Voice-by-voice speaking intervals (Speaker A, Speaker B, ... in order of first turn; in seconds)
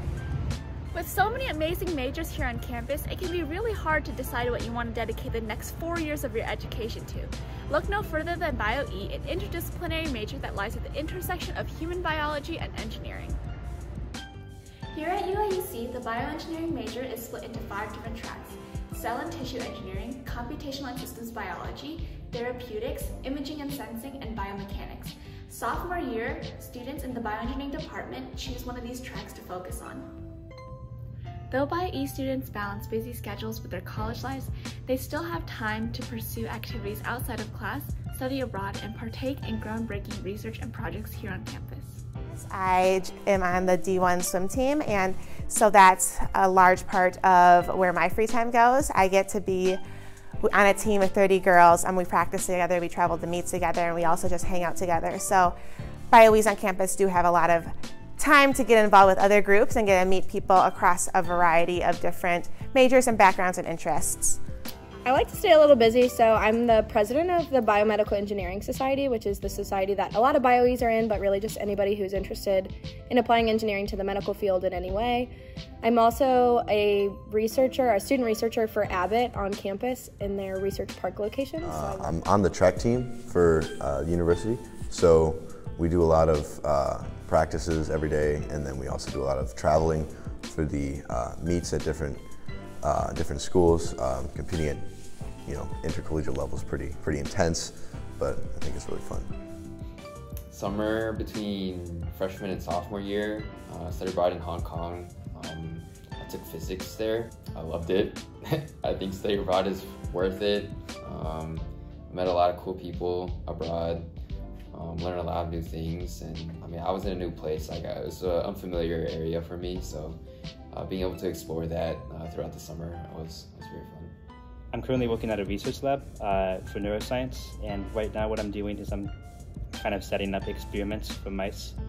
Speaker A: 0.9-13.4, 14.9-30.1, 31.5-42.0
Speaker B: 42.3-49.8, 50.4-55.5, 56.1-64.4
Speaker C: 65.0-75.3, 75.8-82.1
Speaker D: 81.6-92.3, 92.8-99.3
Speaker E: 100.5-108.2, 108.8-114.1, 114.7-120.2, 120.7-124.1
Speaker F: 124.7-129.1, 129.7-131.7